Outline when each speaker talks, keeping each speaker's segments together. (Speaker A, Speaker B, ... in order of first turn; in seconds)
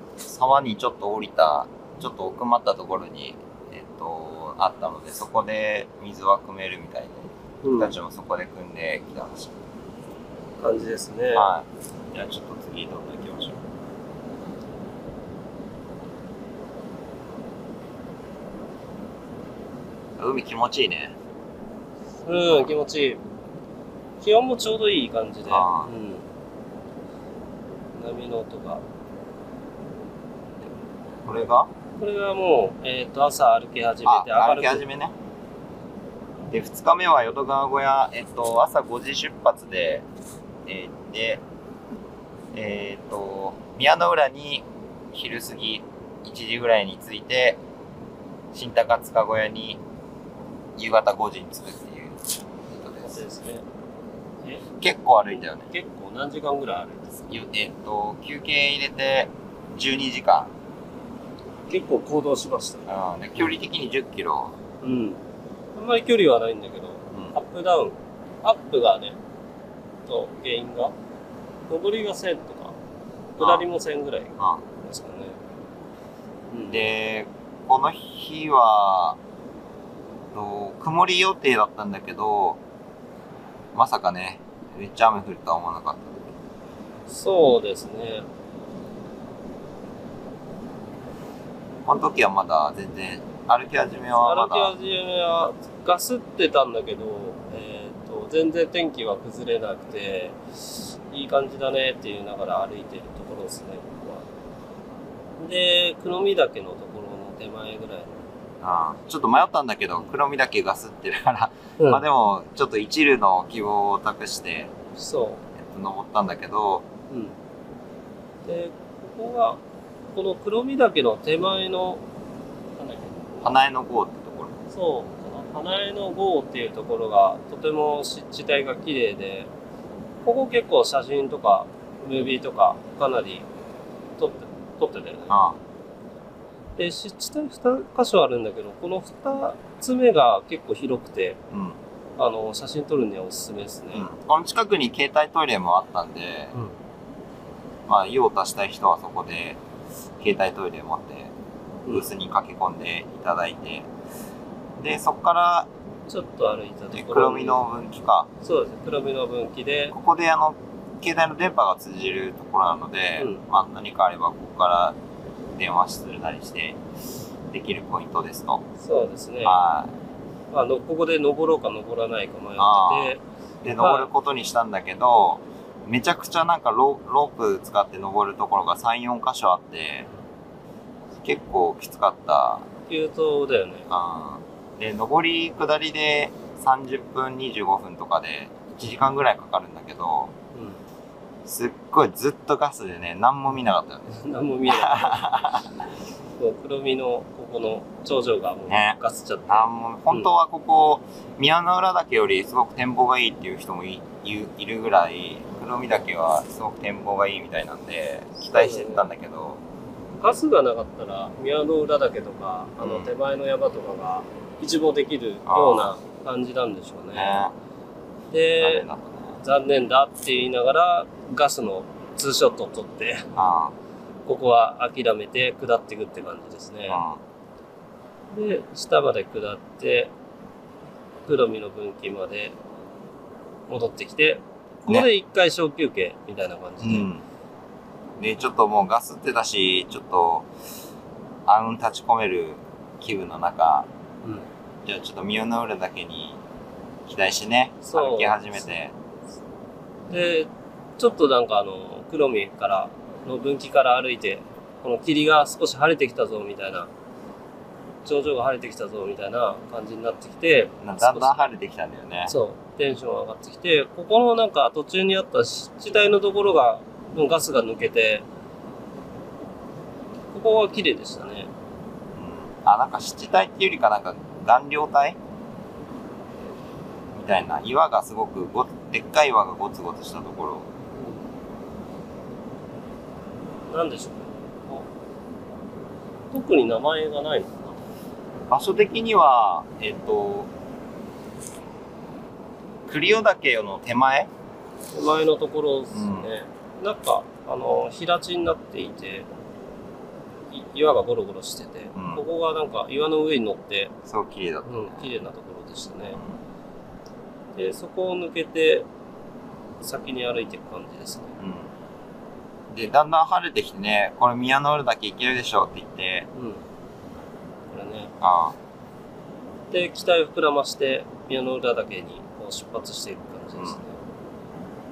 Speaker A: 0.2-9.5, 11.3-13.6, 20.2-21.1, 25.5-25.9, 31.3-31.7, 34.0-35.1, 36.5-40.1, 40.7-41.4, 42.5-47.6, 48.5-49.8, 50.8-53.2, 54.8-55.7, 57.3-60.5, 62.9-64.6, 76.7-79.2, 80.3-82.6, 83.8-86.3, 91.9-94.7, 108.6-114.7, 115.6-116.9, 123.4-124.6, 135.3-135.6, 141.5-141.8, 143.9-146.6, 147.9-149.6, 150.2-151.3, 151.9-153.9, 154.8-155.7, 156.9-158.3, 159.9-165.0, 165.6-166.8, 167.5-168.7, 169.4-169.9, 172.6-180.1, 181.2-182.7, 183.9-190.3, 191.5-195.7, 198.7-209.6, 212.8-213.1, 215.5-215.9, 217.2-217.5, 218.6-219.4, 223.4-223.7, 226.9-227.2, 236.8-237.2, 238.2-240.5, 241.5-243.9, 244.8-246.4, 247.1-248.9, 260.8-262.3, 272.2-275.2, 277.1-280.7, 288.5-290.5, 292.9-294.3, 295.9-296.3, 301.9-302.2, 304.1-305.0, 311.4-311.7, 312.7-316.3, 318.2-318.6
Speaker B: 7.6-7.9, 10.6-11.5, 22.2-23.2, 24.2-26.3, 27.9-28.8, 32.0-34.8, 53.0-53.7, 55.3-57.3, 61.7-62.9, 64.8-65.2, 65.8-69.2, 70.1-71.0, 71.7-72.8, 73.4-75.4, 76.5-76.8, 87.1-88.3, 94.1-104.3, 105.4-108.3, 111.8-112.0, 115.0-115.4, 117.1-117.4, 118.5-119.6, 120.1-122.0, 122.8-123.5, 124.7-129.5, 130.2-133.5, 134.2-135.3, 136.8-141.4, 142.2-144.1, 156.1-157.7, 158.4-159.9, 168.8-169.6, 170.5-174.1, 182.9-183.9, 190.5-190.8, 194.1-195.3, 196.4-200.3, 208.5-209.1, 210.2-217.4, 218.3-218.9, 219.4-223.3, 224.3-227.0, 228.3-230.1, 231.3-232.6, 233.7-237.1, 247.8-248.4, 250.1-256.9, 258.0-261.4, 262.3-268.3, 270.3-271.5, 280.9-281.2, 283.7-284.9, 286.3-287.8, 294.9-299.3, 300.5-303.9, 304.6-306.2, 307.5-308.9, 309.8-311.4, 316.4-316.6, 317.7-318.1, 319.7-324.0